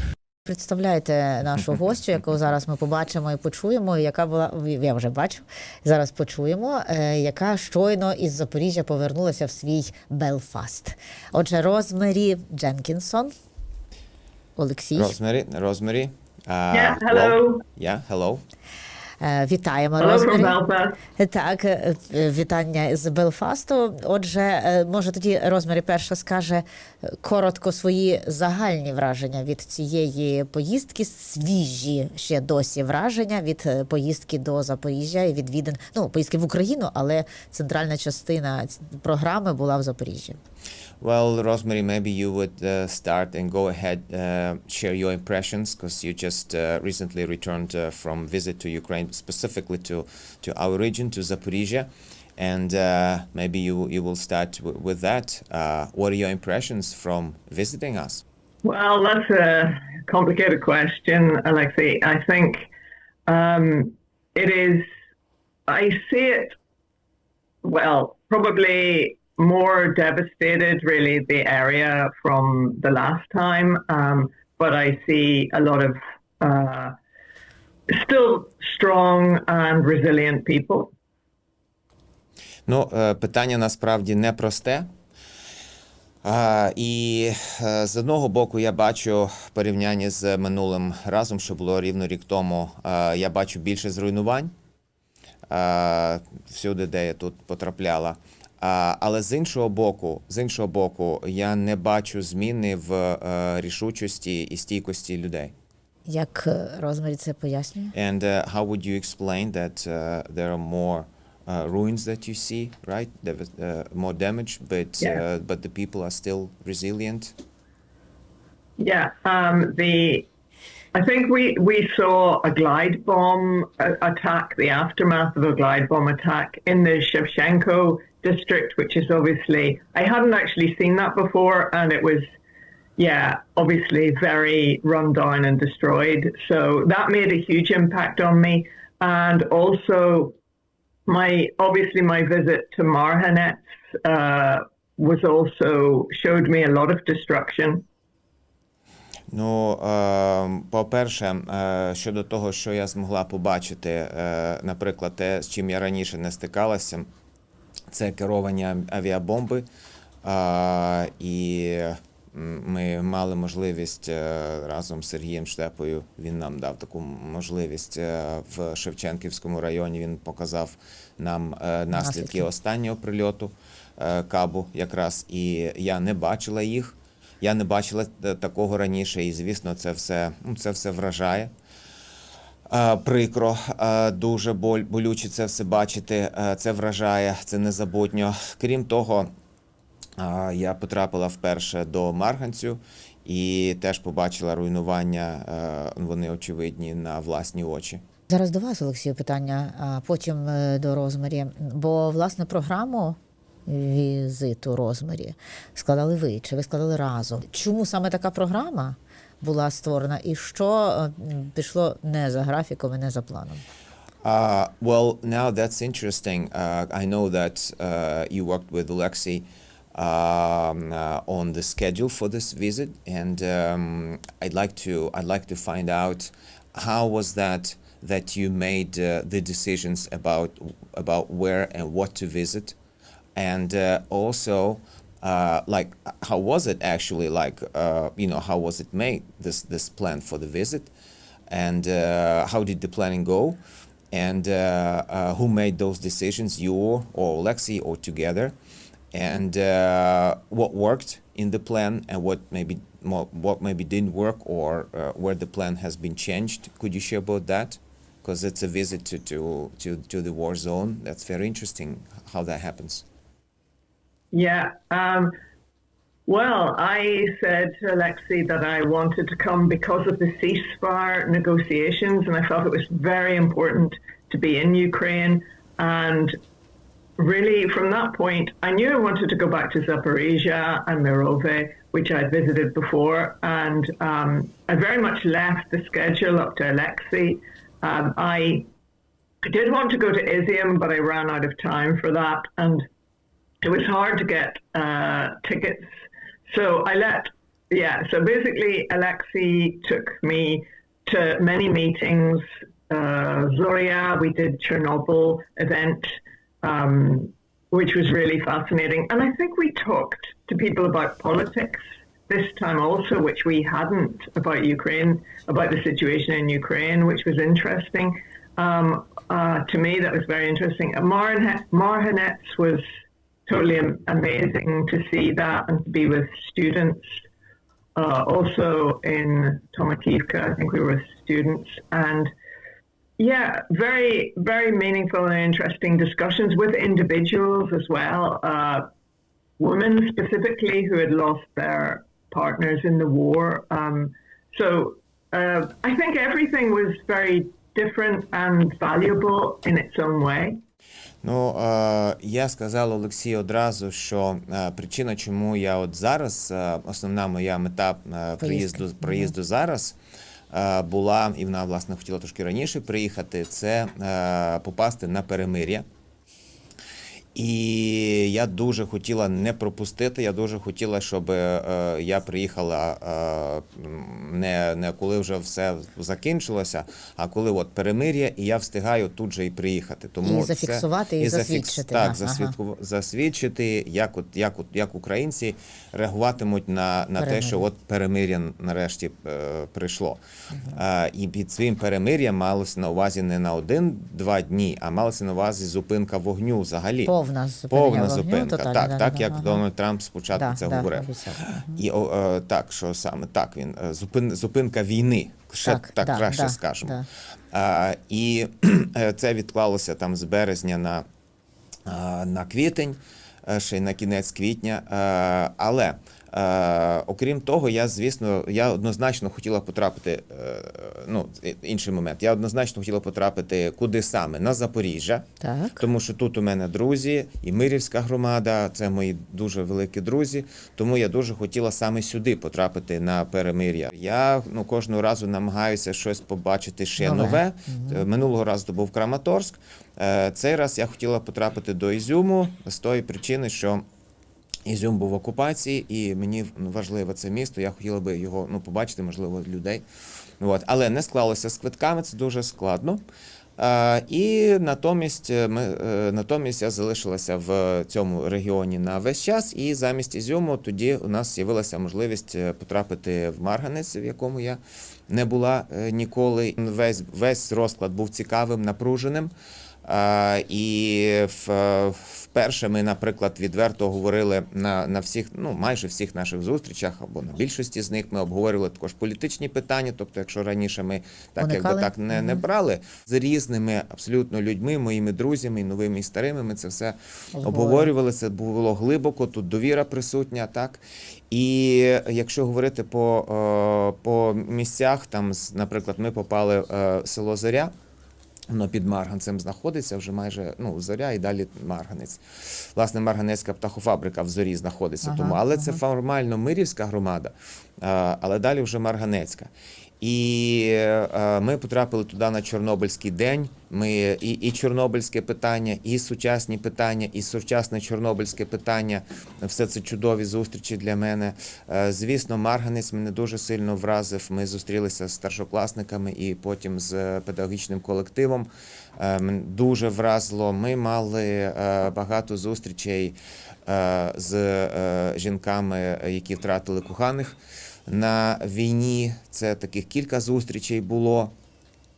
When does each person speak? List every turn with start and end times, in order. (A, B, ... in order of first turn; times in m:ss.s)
0:00.4-0:13.3 A
0:14.6-0:15.1 A
0:15.0-0:18.4 B
0:16.7-0:17.6 C
0:19.2-0:20.6 A
0:20.0-0:21.0 C
0:21.2-0:40.4 A
0:41.0-0:58.2 B
0:58.6-1:02.7 C
1:03.3-1:04.8 C
1:05.7-1:06.5 C
1:07.6-1:16.9 C
1:17.9-1:20.9 C
1:22.7-1:24.9 B
1:26.2-1:34.5 B
1:35.5-1:45.5 B
1:46.0-1:47.9 A
1:47.9-1:57.3 B
1:58.8-2:00.3 C
2:00.9-2:12.3 C
2:13.0-2:20.4 C
2:21.1-2:27.8 C
2:29.3-2:37.1 B
2:37.9-2:39.6 B
2:40.2-3:01.5 B
2:51.9-2:52.4 A
3:02.7-3:09.3 B
3:10.2-3:18.0 B
3:18.3-3:33.6 A
3:34.2-3:52.8 B
3:53.4-4:00.9 B
4:01.5-4:03.6 B
4:04.1-4:08.5 B
4:09.1-4:23.0 B
4:24.3-4:25.3 C
4:26.3-4:36.4 C
4:37.2-4:48.7 C
4:49.4-4:52.8 C
4:53.6-4:55.9 C
4:56.5-5:22.8 C
5:23.5-5:27.1 C
5:28.0-5:32.3 C
5:33.2-5:38.9 C
5:39.6-5:50.6 C
5:51.2-6:00.0 B
5:58.4-5:59.3 A
6:00.5-6:05.8 B
6:07.3-6:37.1 B
6:20.2-6:22.5 A
6:27.2-6:27.6 A
6:37.0-6:39.6 A
6:37.7-6:47.0 B
6:40.3-6:41.8 A
6:45.6-6:47.0 A
6:47.5-6:51.0 B
6:51.8-7:05.3 B
7:05.4-7:05.8 A
7:05.8-7:23.8 B
7:17.0-7:18.0 A
7:24.6-7:29.8 B
7:30.4-7:33.0 B
7:33.6-7:49.3 B
7:49.8-8:17.7 B
8:01.4-8:02.4 A
8:07.4-8:07.9 A
8:18.5-9:01.3 B
8:25.0-8:25.8 A